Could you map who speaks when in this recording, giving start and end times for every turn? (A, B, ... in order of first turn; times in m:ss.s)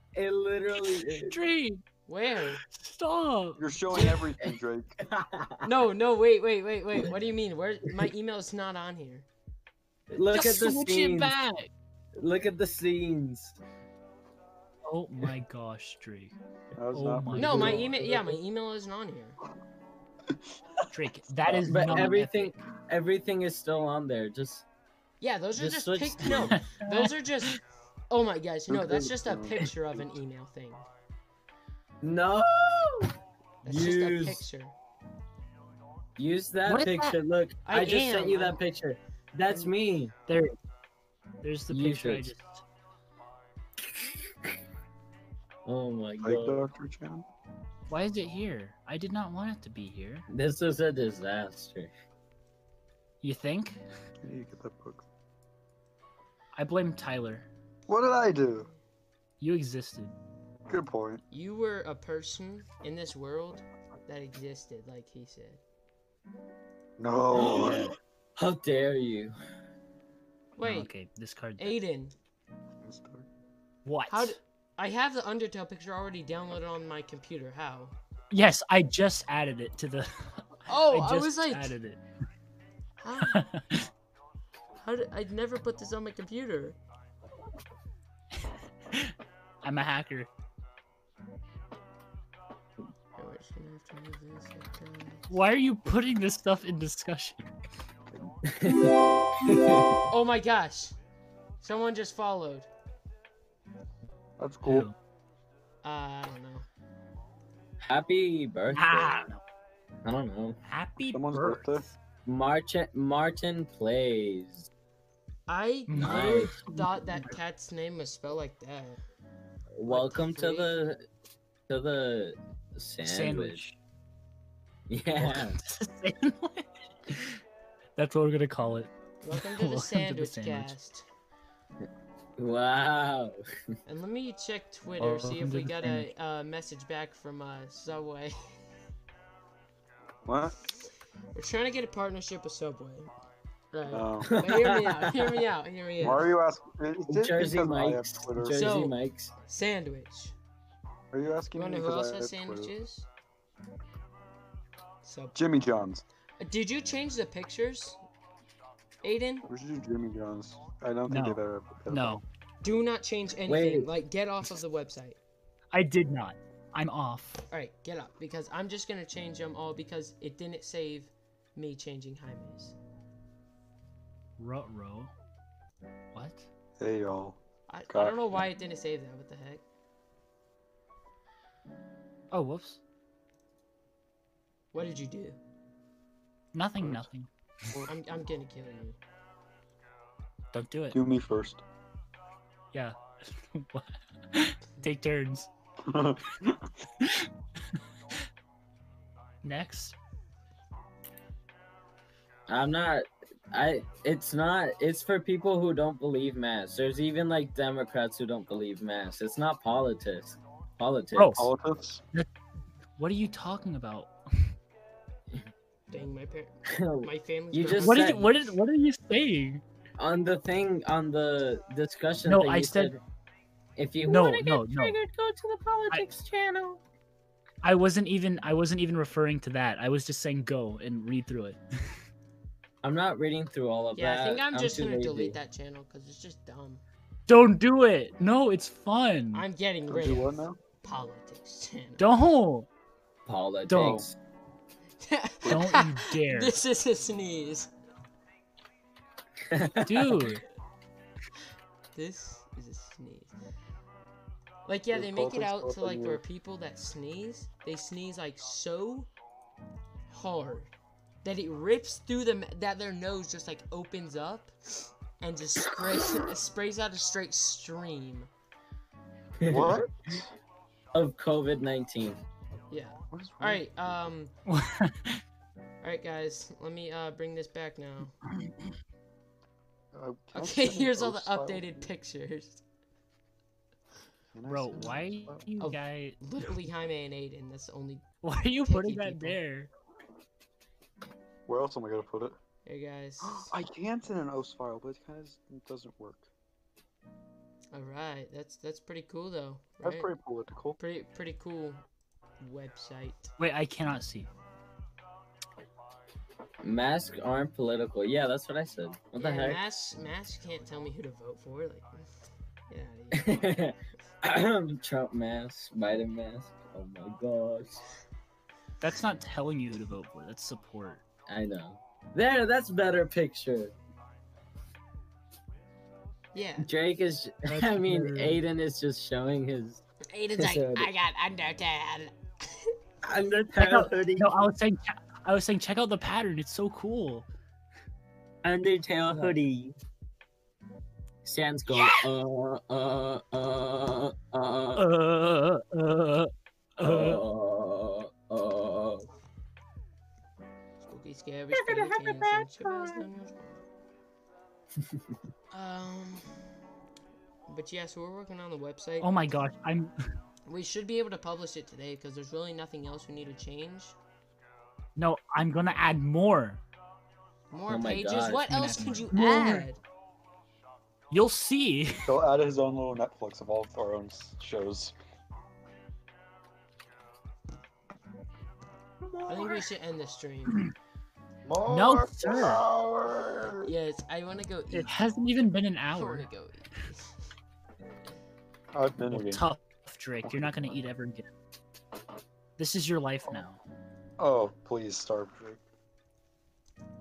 0:00.2-0:01.4 A
0:00.8-0:01.8 B
0:02.1-0:02.6 C
0:02.6-0:04.2 B
0:03.6-0:05.0 D
0:05.1-0:05.6 A
0:05.6-0:09.3 C
0:10.1-0:11.3 A
0:10.3-0:11.7 B
0:12.2-0:13.6 A
0:14.8-0:16.3 B
0:16.8-0:18.4 D
0:16.9-0:18.0 B
0:17.4-0:19.4 C
0:20.9-0:22.6 B
0:21.5-0:22.0 D
0:21.7-0:24.6 A
0:25.2-0:27.6 C
0:25.6-0:26.6 A
0:26.6-0:27.1 B
0:28.1-0:30.9 C
0:28.7-0:30.0 D
0:32.0-0:33.1 A
0:33.6-0:34.8 C
0:33.6-0:34.4 A
0:36.2-0:40.1 A
0:36.7-0:37.2 B
0:37.6-0:38.6 C
0:40.3-0:40.6 B
0:41.4-0:42.6 B
0:41.7-0:42.3 A
0:45.7-0:46.6 A
0:46.2-0:47.3 D
0:47.9-0:50.3 B
0:50.3-0:51.9 A
0:53.2-0:53.8 B
0:54.2-0:55.0 D
0:56.6-0:57.5 B
0:57.9-0:58.7 D
0:59.4-1:00.2 B
1:00.7-1:01.2 D
1:01.3-1:05.6 C
1:07.0-1:07.9 D
1:07.3-1:09.3 A
1:07.4-1:07.9 B
1:10.6-1:10.9 C
1:10.6-1:11.8 B
1:11.6-1:12.1 C
1:12.8-1:13.3 D
1:13.8-1:14.4 B
1:14.1-1:18.0 C
1:18.3-1:22.0 B
1:20.7-1:21.8 C
1:23.0-1:23.5 C
1:23.3-1:23.9 B
1:24.8-1:26.8 C
1:28.9-1:30.3 B
1:33.2-1:35.3 C
1:35.3-1:37.5 B
1:38.5-1:40.0 A
1:40.1-1:41.0 C
1:41.6-1:42.7 C
1:44.4-1:44.9 D
1:44.6-1:45.0 B
1:45.8-1:46.7 C
1:47.9-1:49.3 A
1:48.7-1:49.4 B
1:50.0-1:50.6 A
1:50.7-1:51.9 B
1:51.0-1:51.9 D
1:52.2-1:54.7 A
1:55.5-1:59.0 C
1:55.9-1:57.4 B
1:56.0-1:56.6 A
1:59.8-2:01.0 A
1:59.9-2:00.8 C
2:01.7-2:03.6 A
2:03.0-2:03.8 B
2:04.9-2:05.6 A
2:05.2-2:07.3 B
2:08.0-2:10.7 B
2:09.2-2:11.1 C
2:11.8-2:13.4 A
2:13.9-2:18.4 C
2:15.0-2:16.1 B
2:20.2-2:20.6 D
2:21.3-2:23.1 C
2:23.7-2:26.3 C
2:23.9-2:24.5 D
2:24.3-2:25.3 A
2:26.0-2:28.8 D
2:27.1-2:29.3 A
2:28.5-2:30.4 C
2:31.1-2:32.7 D
2:31.6-2:33.1 C
2:35.0-2:35.4 C
2:35.4-2:36.0 D
2:36.4-2:38.0 C
2:39.0-2:39.5 C
2:39.5-2:42.2 D
2:41.1-2:42.2 B
2:42.6-2:45.2 C
2:43.5-2:43.9 A
2:45.7-2:47.4 B
2:47.5-2:52.8 C
2:54.4-2:55.1 B
2:56.1-2:56.5 B
2:56.8-2:58.4 D
2:57.7-2:59.6 C
3:02.3-3:02.8 B
3:04.7-3:05.4 C
3:06.5-3:07.3 B
3:07.9-3:09.0 C
3:10.5-3:11.0 B
3:10.9-3:11.6 D
3:12.7-3:15.5 B
3:15.8-3:16.7 D
3:17.0-3:17.3 B
3:19.4-3:20.0 B
3:22.5-3:31.5 A
3:31.2-3:31.5 B
3:31.4-3:32.0 D
3:33.0-3:34.5 B
3:35.9-3:38.2 C
3:36.7-3:38.3 A
3:37.7-3:39.6 B
3:40.0-3:43.0 A
3:42.3-3:43.0 B
3:43.8-3:46.8 A
3:44.0-3:45.0 B
3:47.6-3:51.6 B
3:52.8-3:55.4 A
3:54.0-3:56.8 C
3:57.3-3:59.5 B
3:59.3-4:02.0 C
3:59.9-4:00.6 D
4:02.0-4:02.7 B
4:03.3-4:04.2 A
4:03.7-4:04.0 B
4:05.0-4:07.7 C
4:05.4-4:06.6 B
4:09.5-4:10.3 A
4:09.8-4:10.4 B
4:11.9-4:13.3 C
4:14.6-4:19.1 C
4:14.9-4:16.2 D
4:20.1-4:20.7 C
4:21.2-4:28.3 C
4:29.4-4:29.8 A
4:29.4-4:30.3 D
4:30.9-4:32.2 A
4:32.7-4:34.3 C
4:33.1-4:34.0 D
4:34.5-4:35.2 B
4:35.8-4:38.2 C
4:39.9-4:41.9 D
4:40.3-4:42.6 C
4:44.3-4:45.4 D
4:44.5-4:46.2 B
4:45.6-4:48.1 C
4:48.2-4:49.7 B
4:48.6-4:49.4 C
4:51.5-4:52.4 D
4:52.7-4:53.5 C
4:53.2-4:56.3 D
4:57.7-5:00.1 C
4:59.8-5:00.8 D
5:00.8-5:01.8 C
5:02.4-5:03.3 C
5:03.4-5:04.3 B
5:06.6-5:09.6 A
5:09.2-5:12.0 C
5:12.7-5:13.6 C
5:13.1-5:17.8 A
5:18.8-5:21.0 B
5:21.3-5:23.7 A
5:26.3-5:26.7 C
5:26.6-5:29.8 A
5:27.5-5:28.4 B
5:30.1-5:32.7 C
5:30.4-5:30.9 A
5:33.0-5:34.3 A
5:33.6-5:37.3 B
5:38.4-5:39.8 A
5:41.2-5:44.8 A
5:41.7-5:42.0 B
5:44.8-5:47.2 B
5:46.8-5:49.1 A
5:50.8-5:53.6 C
5:55.5-5:56.3 C
5:57.5-5:59.1 C
5:59.0-5:59.9 B
6:00.5-6:04.0 C
6:05.0-6:06.6 B
6:07.5-6:09.8 C
6:07.7-6:08.5 A
6:08.5-6:09.7 B
6:11.1-6:12.2 B
6:12.0-6:14.9 D
6:19.3-6:20.7 C
6:21.4-6:23.7 D
6:21.7-6:22.6 B
6:23.6-6:24.9 C
6:24.7-6:26.3 B
6:25.9-6:27.1 C
6:28.7-6:29.4 D
6:29.1-6:31.3 B
6:30.2-6:30.8 D
6:32.6-6:33.6 B
6:34.2-6:35.6 D